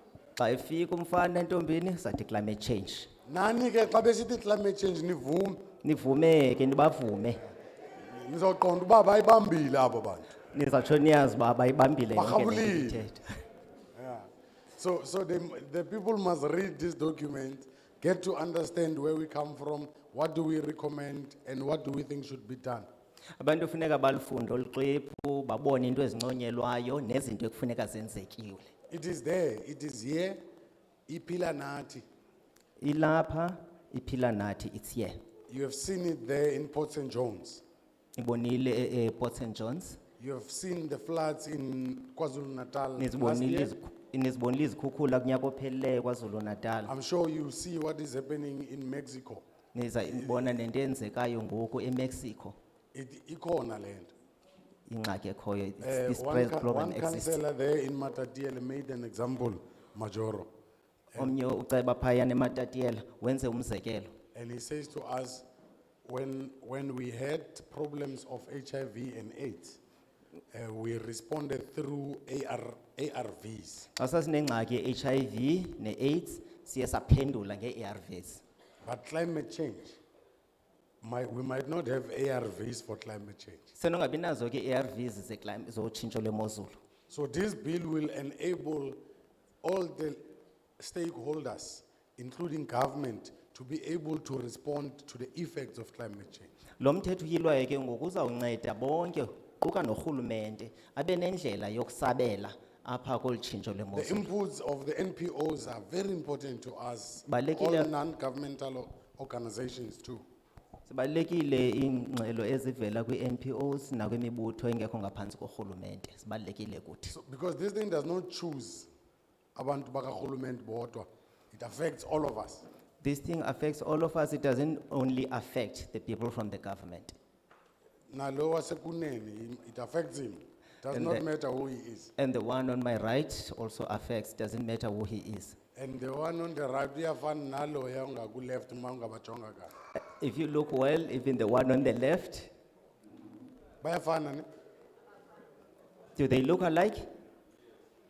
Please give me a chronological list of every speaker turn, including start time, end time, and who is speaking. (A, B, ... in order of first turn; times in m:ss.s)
0:00.4-0:03.1 A
0:03.3-0:05.6 B
0:05.8-0:07.4 A
0:08.0-0:10.3 B
0:10.5-0:13.2 A
0:12.1-0:13.0 B
0:14.0-0:22.9 B
0:23.4-0:28.7 A
0:28.9-0:30.4 B
0:31.1-0:32.0 B
0:32.8-0:35.2 A
0:35.5-0:37.6 B
0:38.2-0:40.0 A
0:40.2-0:43.7 B
0:43.0-0:46.9 A
0:46.9-0:49.4 B
0:49.7-0:52.6 A
0:50.1-0:50.6 B
0:52.9-0:54.1 B
0:54.9-0:57.4 A
0:55.8-1:00.5 B
1:01.2-1:04.1 A
1:04.3-1:05.5 B
1:06.0-1:09.8 B
1:10.5-1:13.9 B
1:14.0-1:18.4 A
1:18.8-1:20.0 B
1:21.0-1:23.7 B
1:23.7-1:26.8 A
1:27.1-1:29.0 B
1:29.6-1:30.2 B
1:30.8-1:36.5 B
1:36.8-1:44.3 A
1:43.9-1:50.2 B
1:47.3-1:47.9 A
1:50.9-1:57.2 A
1:57.1-1:58.9 B
1:59.6-2:02.6 B
2:03.0-2:07.2 A
2:08.1-2:12.1 B
2:10.9-2:11.2 A
2:12.2-2:15.6 A
2:15.8-2:19.7 B
2:20.1-2:22.5 A
2:23.8-2:24.5 B
2:26.2-2:27.0 A